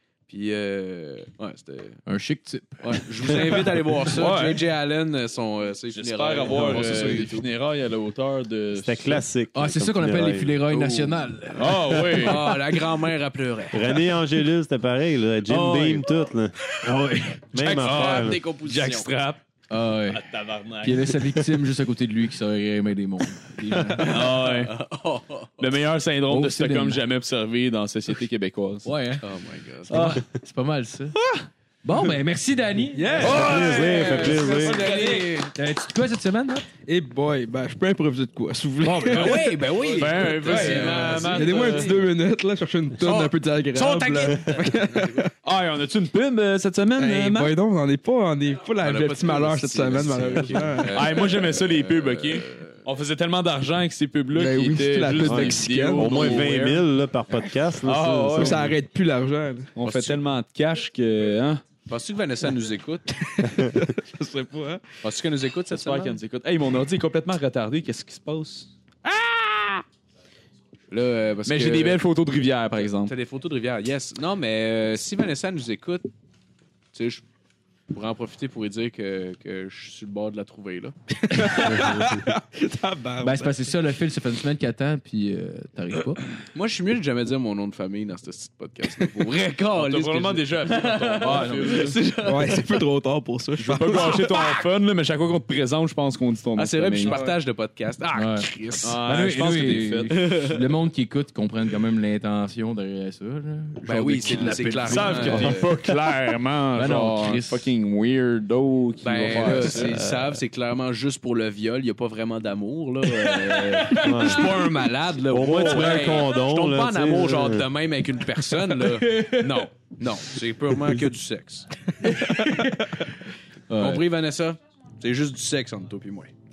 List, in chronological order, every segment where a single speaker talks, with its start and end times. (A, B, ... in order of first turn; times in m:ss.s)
0:00.3-0:02.0 A
0:02.0-0:03.6 B
0:02.8-0:07.2 A
0:04.0-0:04.6 C
0:05.9-0:09.2 C
0:06.5-0:07.4 B
0:08.7-0:10.6 D
0:09.5-0:12.6 B
0:10.7-0:12.4 C
0:12.1-0:14.0 A
0:13.7-0:16.5 D
0:15.4-0:16.1 C
0:16.8-0:17.4 B
0:17.5-0:18.4 D
0:17.6-0:19.4 C
0:17.6-0:19.1 A
0:19.7-0:20.2 B
0:20.1-0:21.3 C
0:20.8-0:24.3 B
0:24.0-0:24.7 C
0:24.1-0:25.8 A
0:25.6-0:28.9 C
0:26.3-0:27.0 B
0:28.8-0:29.2 B
0:29.2-0:30.2 A
0:29.9-0:31.1 B
0:29.9-0:30.2 C
0:31.8-0:36.7 B
0:32.9-0:33.8 E
0:33.2-0:35.4 C
0:33.2-0:34.8 D
0:33.3-0:35.5 A
0:36.8-0:39.9 E
0:38.8-0:41.9 B
0:39.1-0:42.0 A
0:39.9-0:42.0 C
0:40.5-0:45.3 E
0:43.0-0:45.3 A
0:45.4-0:47.5 C
0:47.0-0:51.2 E
0:48.8-0:52.8 A
0:50.9-0:56.9 C
0:54.3-0:56.4 E
0:55.2-0:58.7 D
0:57.8-0:58.7 C
0:58.3-0:59.7 E
0:59.7-1:01.6 C
0:59.8-1:00.2 A
1:01.9-1:03.3 A
1:03.2-1:04.8 E
1:05.0-1:06.2 A
1:05.7-1:09.8 C
1:10.9-1:12.0 A
1:11.4-1:13.1 C
1:12.8-1:16.1 A
1:16.9-1:17.2 A
1:17.9-1:20.9 A
1:21.2-1:23.6 E
1:23.2-1:26.2 B
1:26.5-1:32.8 A
1:29.7-1:32.0 C
1:31.2-1:32.0 B
1:32.2-1:34.2 E
1:33.6-1:37.2 C
1:33.9-1:34.7 A
1:36.6-1:39.0 A
1:37.0-1:37.3 B
1:38.1-1:45.7 B
1:38.8-1:40.2 C
1:40.1-1:40.6 A
1:43.8-1:45.7 A
1:44.2-1:50.0 C
1:46.7-1:47.7 B
1:49.0-2:01.7 A
1:49.6-1:50.4 D
1:53.1-1:54.8 B
1:54.0-1:54.5 D
1:55.3-1:57.7 D
1:58.4-1:59.6 B
2:02.0-2:03.0 B
2:02.1-2:02.6 E
2:03.7-2:04.0 B
2:03.8-2:06.3 A